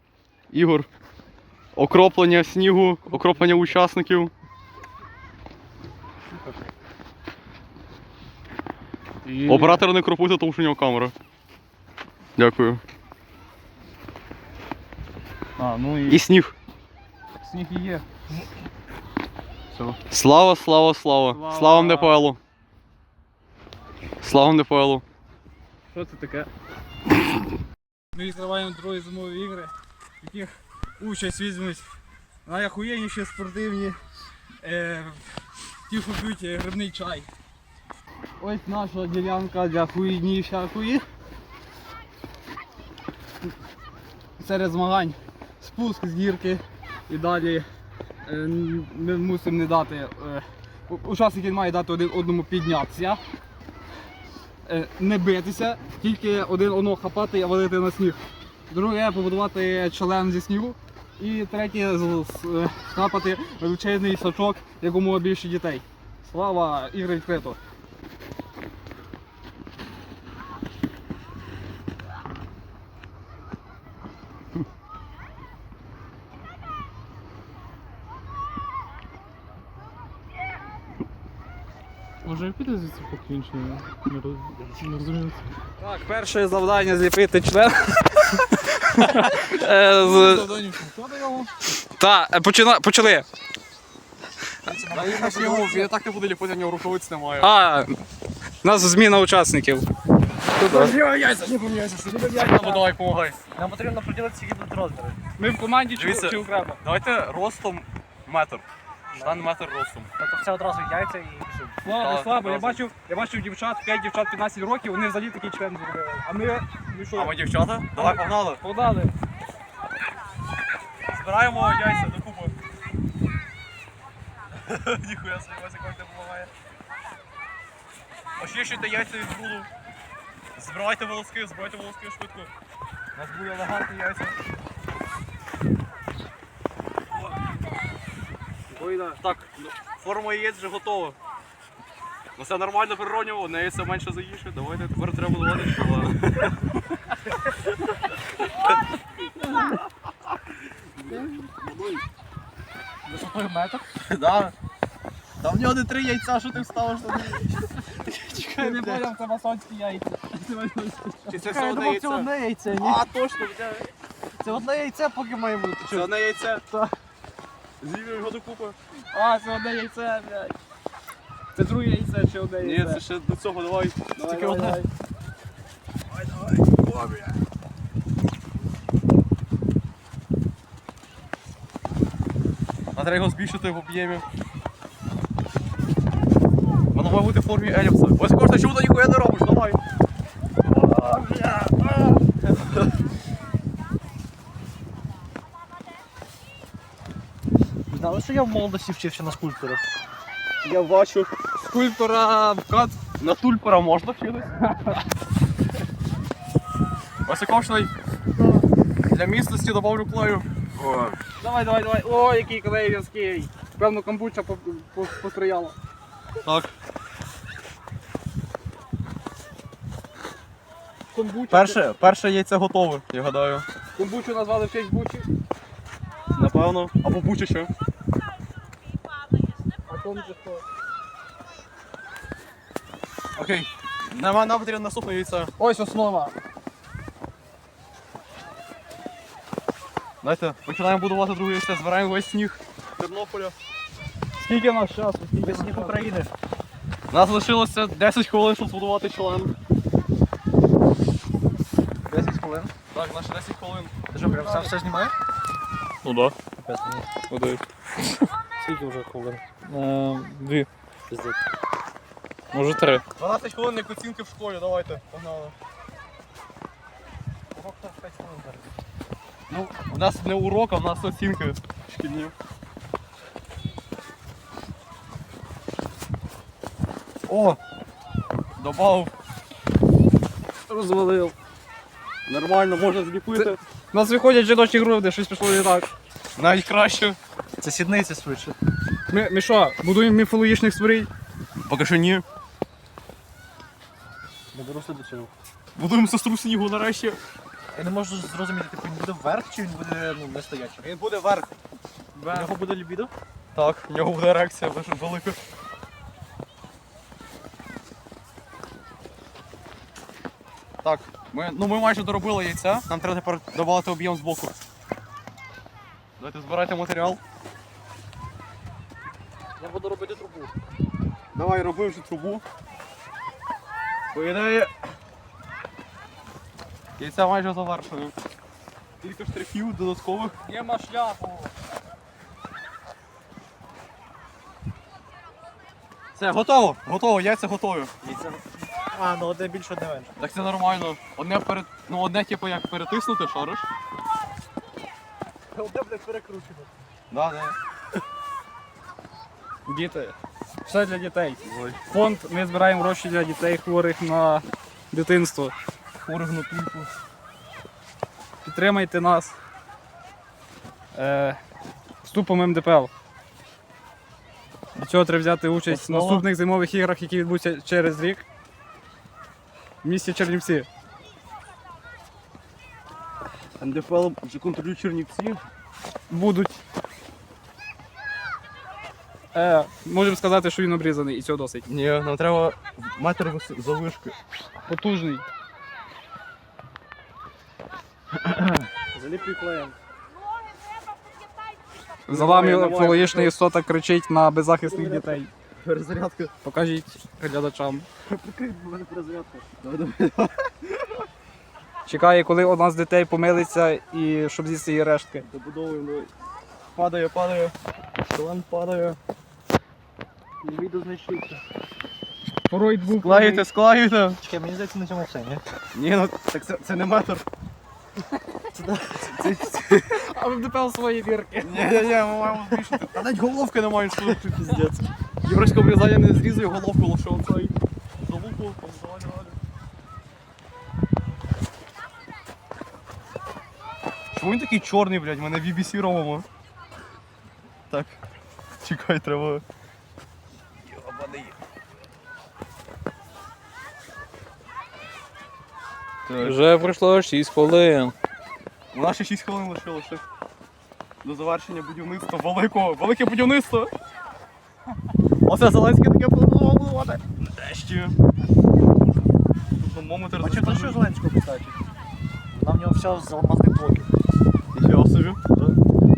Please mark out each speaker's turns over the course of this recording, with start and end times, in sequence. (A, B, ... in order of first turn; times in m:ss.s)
0:00.5-0:00.9 A
0:01.8-0:04.3 A
0:03.1-0:03.7 B
0:06.3-0:06.6 B
0:09.2-0:09.8 B
0:09.5-0:11.1 A
0:12.4-0:12.8 A
0:15.6-0:16.2 B
0:16.1-0:16.6 A
0:17.4-0:18.1 B
0:20.1-0:22.4 A
0:21.3-0:22.3 B
0:24.2-0:25.0 A
0:25.9-0:26.5 B
0:28.1-0:31.9 B
0:32.4-0:34.0 B
0:34.6-0:35.2 B
0:35.9-0:37.3 B
0:38.4-0:41.0 B
0:44.4-0:47.7 B
0:48.2-0:53.2 B
0:54.6-1:07.6 B
1:22.2-1:25.4 C
1:25.8-1:30.5 B
1:29.6-1:31.5 C
1:32.0-1:33.3 B
1:34.7-1:35.9 D
1:34.9-1:37.5 A
1:37.4-1:37.9 B
1:38.6-1:39.9 B
1:40.6-1:43.4 A
1:40.7-1:41.0 D
1:41.6-1:42.8 D
1:43.6-1:45.2 D
1:45.4-1:46.8 B
1:46.0-1:48.7 A
1:49.1-1:49.4 D
1:49.2-1:50.1 A
1:50.2-1:51.8 D
1:51.8-1:57.4 B
1:52.0-1:52.8 A
1:57.1-1:58.6 A
1:57.9-1:59.2 B
2:01.1-2:02.6 A
2:04.5-2:06.5 A
2:08.4-2:09.7 A
2:10.6-2:12.5 A
2:13.2-2:14.4 A
2:18.7-2:19.2 B
2:19.2-2:21.2 A
2:22.4-2:26.5 A
2:31.1-2:32.0 A
2:33.1-2:33.8 D
2:34.0-2:34.6 A
2:35.4-2:37.6 A
2:38.3-2:39.0 A
2:38.3-2:41.5 B
2:41.3-2:43.9 A
2:41.3-2:43.0 D
2:44.4-2:46.1 D
2:45.9-2:46.6 A
2:47.8-2:48.8 A
2:49.1-2:50.6 B
2:51.5-2:53.0 B
2:52.6-2:54.8 A
2:54.2-2:54.9 B
2:56.1-2:57.4 A
3:03.0-3:04.2 A
3:06.9-3:09.8 A
3:10.8-3:12.2 A
3:17.9-3:19.8 D
3:20.6-3:21.3 A
3:21.6-3:23.0 B
3:23.2-3:24.5 A
3:24.6-3:25.0 B
3:27.3-3:27.9 A
3:29.0-3:31.2 A
3:31.4-3:35.8 B
3:36.4-3:36.7 A
3:41.1-3:41.9 B
3:41.5-3:43.7 A
3:44.0-3:45.3 B
3:46.4-3:47.7 A
3:49.9-3:50.6 B
3:53.4-3:55.5 A
3:55.6-3:56.4 B
4:00.2-4:03.6 A
4:04.4-4:06.1 B
4:05.4-4:06.3 D
4:07.1-4:09.6 A
4:12.1-4:12.7 D
4:12.9-4:14.8 A
4:14.1-4:15.2 D
4:16.0-4:16.4 C
4:16.6-4:17.1 D
4:17.3-4:17.6 C
4:18.6-4:19.4 D
4:19.6-4:20.7 C
4:21.1-4:21.4 D
4:22.5-4:23.0 C
4:23.2-4:25.6 A
4:27.5-4:28.7 D
4:29.5-4:32.3 A
4:37.3-4:37.6 D
4:38.6-4:39.1 A
4:40.7-4:41.4 B
4:42.3-4:43.6 A
4:43.3-4:45.9 B
4:46.4-4:47.2 A
4:47.6-4:48.6 D
4:49.1-4:51.1 B
4:51.6-4:52.2 A
4:54.5-4:55.3 D
4:55.8-4:57.2 A
4:57.7-5:00.9 D
5:00.8-5:01.5 A
5:02.2-5:02.6 A
5:02.3-5:03.1 D
5:03.5-5:05.4 A
5:10.8-5:14.6 A
5:16.2-5:17.2 A
5:19.6-5:20.5 D
5:21.3-5:22.4 A
5:24.1-5:24.7 A
5:27.0-5:28.2 A
5:29.0-5:30.4 A
5:30.4-5:31.5 B
5:36.2-5:37.9 A
5:38.0-5:40.2 D
5:40.2-5:43.7 A
5:45.5-5:46.7 D
5:47.1-5:47.6 A
5:49.7-5:55.6 B
5:51.4-5:51.8 A
5:56.0-5:56.9 A
5:58.4-5:59.4 B
6:00.9-6:01.4 B
6:02.0-6:02.9 B
6:04.8-6:08.2 B
6:05.7-6:06.2 A
6:09.8-6:10.7 B
6:13.6-6:15.4 A
6:16.1-6:16.6 B
6:19.3-6:21.6 B
6:21.7-6:24.2 A
6:24.6-6:25.2 B
6:28.9-6:29.8 D
6:32.1-6:33.3 A
6:32.1-6:35.3 B
6:34.7-6:35.2 D
6:35.6-6:36.3 A
6:36.4-6:37.9 B
6:38.1-6:39.5 D
6:39.6-6:40.5 A
6:41.9-6:45.2 B
6:45.2-6:46.1 A
6:46.7-6:47.5 A
6:48.1-6:49.0 A
6:50.4-6:51.4 D
6:52.5-6:53.5 B
6:53.0-6:54.2 A
6:54.2-6:55.4 D
6:55.7-6:57.2 A
6:58.5-6:59.5 D
6:59.1-7:00.0 A
6:59.9-7:02.2 B
7:01.4-7:04.7 A
7:04.1-7:04.7 D
7:05.2-7:09.4 A
7:14.1-7:16.2 A
7:17.7-7:18.0 A
7:18.6-7:19.4 A
7:20.6-7:21.4 A
7:26.1-7:26.4 A
7:26.2-7:28.0 C
7:28.7-7:30.0 A
7:31.0-7:33.7 A
7:35.2-7:38.0 A
7:39.6-7:40.9 A
7:40.2-7:41.6 D
7:42.3-7:43.9 D
7:44.5-7:45.2 A